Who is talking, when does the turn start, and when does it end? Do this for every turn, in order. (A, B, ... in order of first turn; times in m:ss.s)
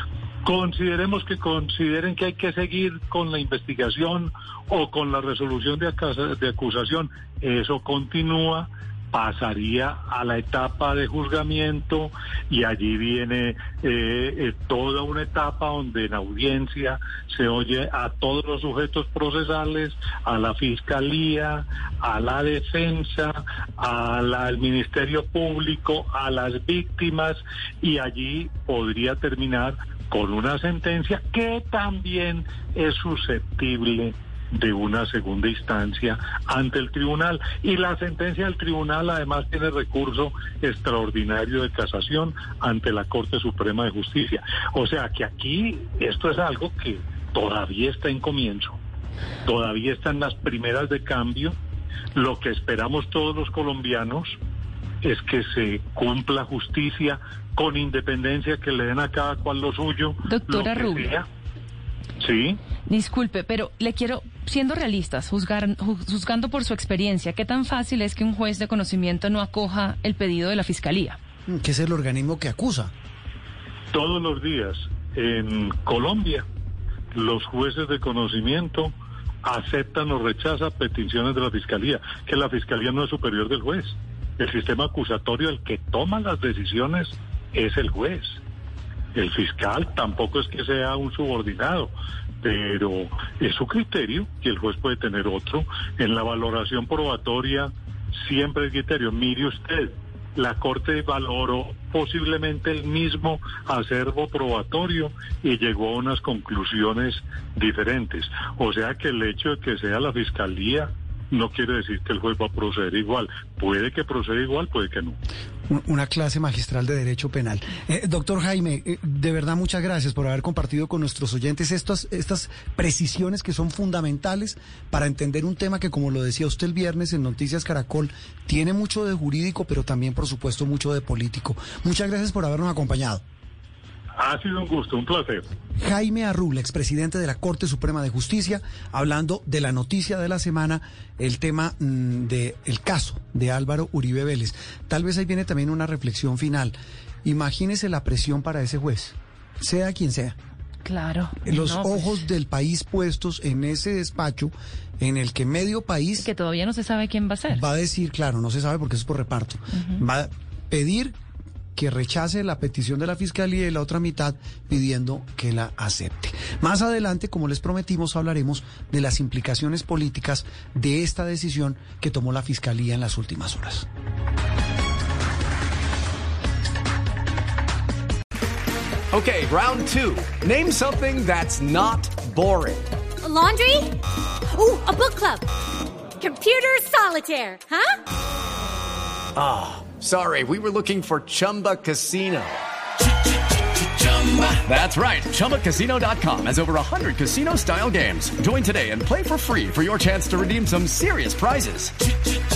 0:00.4-0:48.8 A
0:49.4-0:51.6 A
0:52.1-0:54.4 A
0:55.0-1:01.2 A
1:00.2-1:01.2 B
1:02.2-1:02.6 A
1:02.9-1:11.2 B
1:11.5-1:12.9 C
1:13.9-1:16.4 A
1:17.1-1:28.4 A
1:29.1-1:55.2 A
1:55.7-2:13.2 C
2:14.2-2:15.5 A
2:15.8-2:30.4 C
2:30.8-2:32.3 B
2:31.4-2:36.3 C
2:36.2-2:37.6 B
2:37.5-2:41.2 C
2:39.7-2:40.0 B
2:41.8-2:53.9 C
2:59.1-3:02.8 D
3:03.2-3:03.9 E
3:04.5-3:05.5 E
3:06.2-3:07.9 E
3:09.4-3:12.6 D
3:14.2-3:21.9 D